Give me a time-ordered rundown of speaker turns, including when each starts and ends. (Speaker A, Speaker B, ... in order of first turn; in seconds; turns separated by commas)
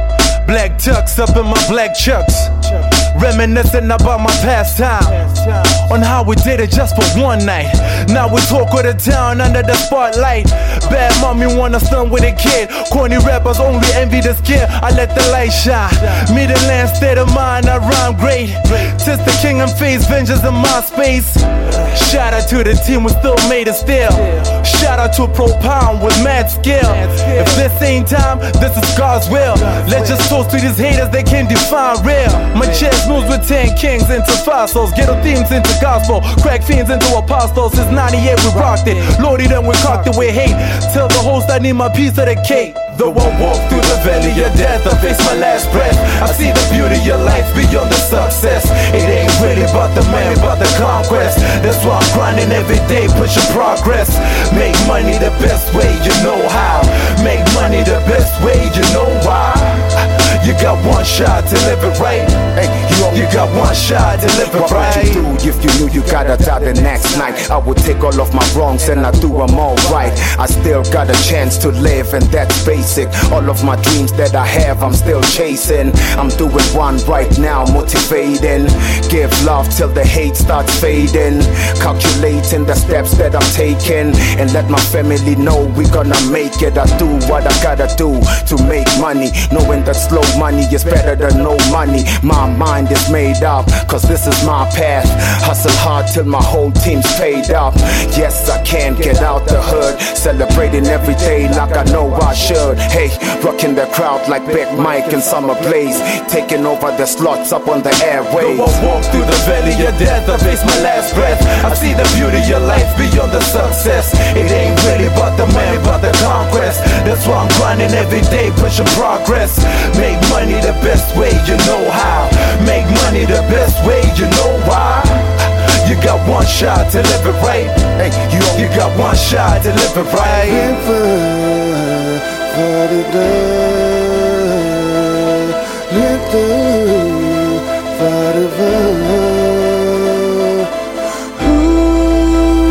Speaker A: 0.2-62.5, Speaker B: 62.5-63.5, Speaker A: 63.1-65.2, Speaker B: 64.5-108.8, Speaker A: 108.4-130.7, Speaker B: 128.0-128.7, Speaker B: 130.6-140.4, Speaker B: 141.4-141.7